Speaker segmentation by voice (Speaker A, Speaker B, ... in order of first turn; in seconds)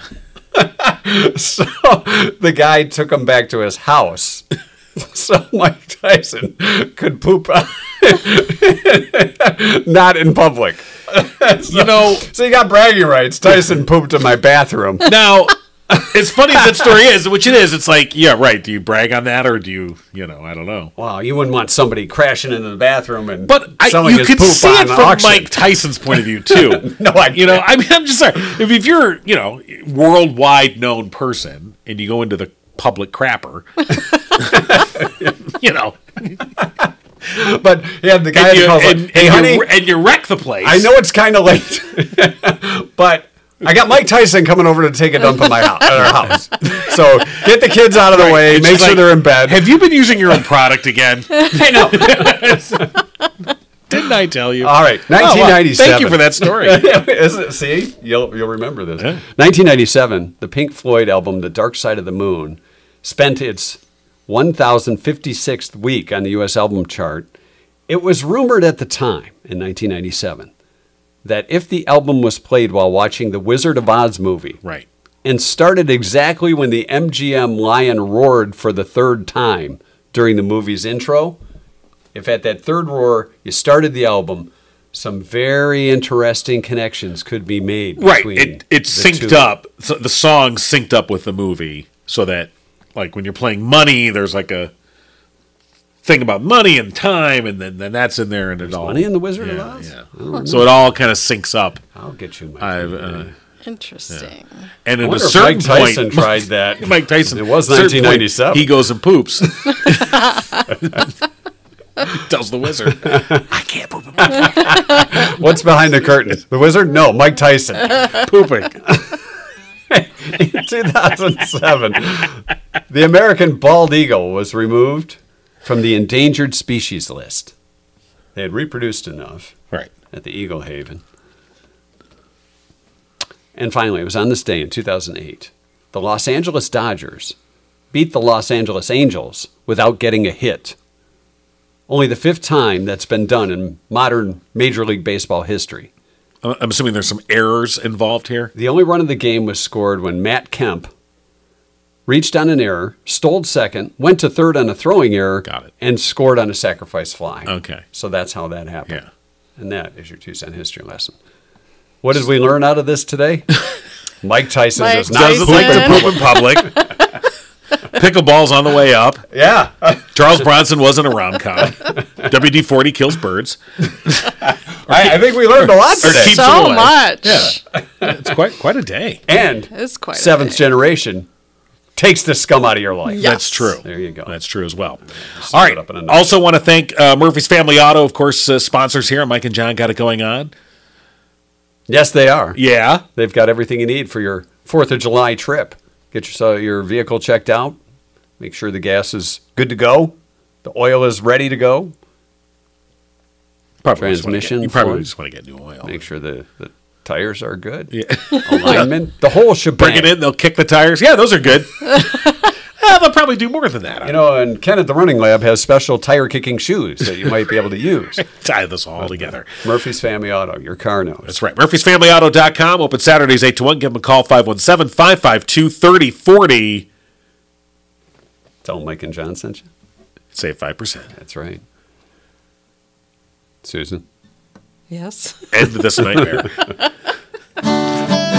Speaker A: 0.5-15.2, 21.0-27.6, 34.4-35.4, 36.6-39.7, 40.6-49.8, 51.5-52.9, 54.6-67.3, 67.9-70.5, 71.2-74.6, 75.2-81.4, 82.1-89.5, 98.6-100.7, 102.0-103.3, 105.0-108.7, 113.0-113.4, 114.2-118.2, 118.9-119.2, 119.9-127.5, 128.3-129.5, 130.1-131.0, 133.6-137.4, 137.9-140.8, 141.9-145.9, 148.6-150.9, 152.1-159.0, 159.6-161.2, 162.0-163.5, 164.2-166.4, 169.3-170.1, 174.9-176.5, 179.3-181.3, 182.0-184.3, 185.4-186.2, 191.9-192.6, 193.2-197.8, 198.4-201.9, 204.0-205.1, 205.8-210.1, 214.0-218.2, 219.0-221.3, 228.6-229.7, 231.1-231.6, 233.6-234.0
Speaker B: 11.7-12.3, 15.1-20.9, 23.5-34.8, 35.6-36.4, 38.4-40.9, 48.1-52.9, 53.9-57.0, 88.0-94.7, 96.0-101.8, 102.6-103.3, 104.8-111.1, 112.1-115.0, 118.2-118.8, 146.4-148.5, 157.5-157.8, 165.1-166.7, 167.9-169.3, 170.1-174.4, 174.9-179.2, 183.2-190.5, 192.6-193.0, 203.8-205.9, 207.9-208.9, 209.8-214.2, 218.2-219.5, 221.3-226.9, 230.3-231.1, 235.5-236.6
Speaker C: 103.6-104.5, 164.8-166.8, 176.1-177.6, 179.7-180.6, 183.1-183.7, 234.9-235.4